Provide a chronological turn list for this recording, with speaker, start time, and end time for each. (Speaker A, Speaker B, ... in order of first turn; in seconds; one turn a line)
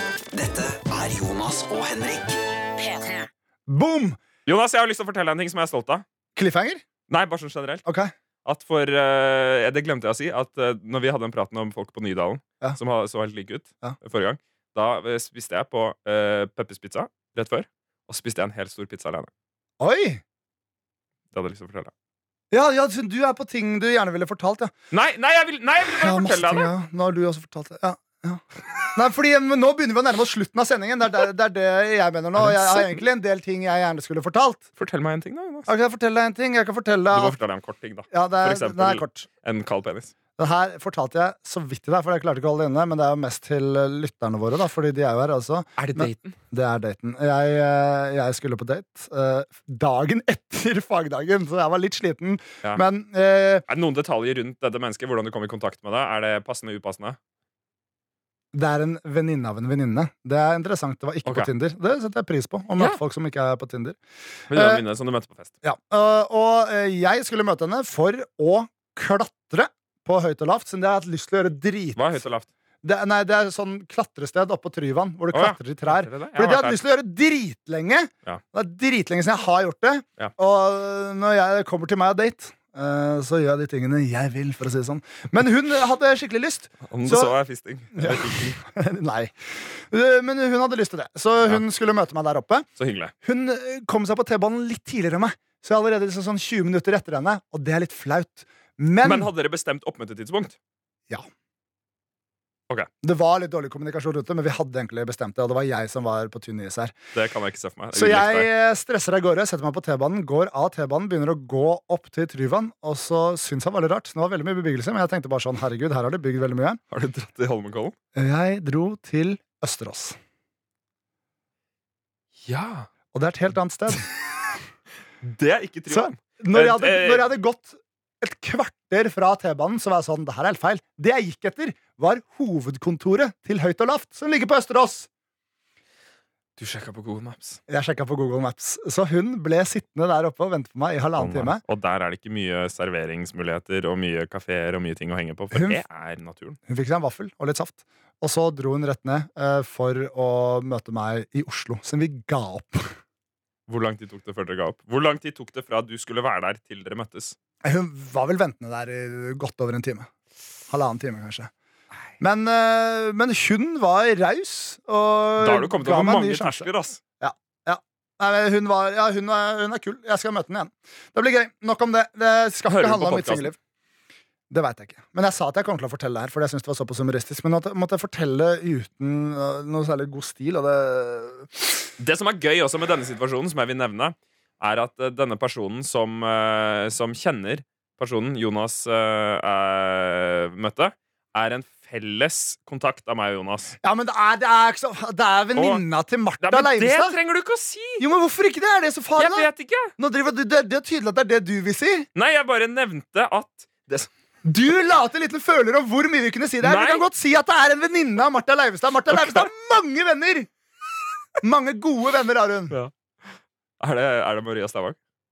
Speaker A: 0.3-3.3
Speaker B: 3.7-4.2
Speaker C: 4.5-6.0
Speaker B: 6.3-6.8
Speaker C: 7.1-7.8
Speaker B: 7.8-8.1
Speaker C: 8.4-19.3
Speaker B: 19.8-20.2
Speaker C: 21.3-21.9
Speaker B: 22.5-24.7
Speaker C: 24.9-26.7
Speaker B: 25.8-34.6
Speaker C: 32.4-33.0
Speaker C: 34.8-35.7
Speaker B: 35.7-37.3
Speaker C: 37.1-40.1
Speaker B: 38.1-39.2
Speaker B: 40.4-53.6
Speaker C: 45.8-46.4
Speaker C: 53.7-57.2
Speaker B: 58.5-64.0
Speaker C: 61.2-61.5
Speaker C: 64.5-65.5
Speaker B: 64.5-64.8
Speaker B: 65.6-72.2
Speaker C: 72.0-72.5
Speaker B: 72.8-87.3
Speaker C: 75.3-76.8
Speaker C: 86.9-88.6
Speaker B: 87.9-92.7
Speaker C: 92.8-93.1
Speaker B: 93.2-99.3
Speaker C: 99.0-100.6
Speaker B: 103.0-106.9
Speaker C: 107.1-108.5
Speaker B: 107.9-116.8
Speaker C: 116.9-118.0
Speaker B: 118.1-120.2
Speaker C: 122.4-122.9
Speaker B: 123.1-124.0
Speaker C: 125.2-127.3
Speaker B: 125.9-135.1
Speaker C: 136.6-137.6
Speaker B: 137.7-141.6
Speaker C: 141.2-146.6
Speaker B: 145.5-145.8
Speaker B: 146.7-152.9
Speaker C: 153.7-157.3
Speaker B: 157.6-160.1
Speaker B: 160.7-161.5
Speaker B: 162.2-166.7
Speaker C: 165.4-167.0
Speaker B: 167.2-173.6
Speaker C: 172.7-173.5
Speaker B: 174.5-181.6
Speaker C: 182.0-193.7
Speaker B: 193.8-197.2
Speaker C: 195.6-195.8
Speaker C: 196.4-198.0
Speaker B: 198.0-202.1
Speaker C: 199.2-199.9
Speaker C: 202.1-204.1
Speaker B: 204.4-210.5
Speaker C: 206.6-207.1
Speaker C: 209.1-209.5
Speaker B: 211.4-212.7
Speaker C: 213.8-215.0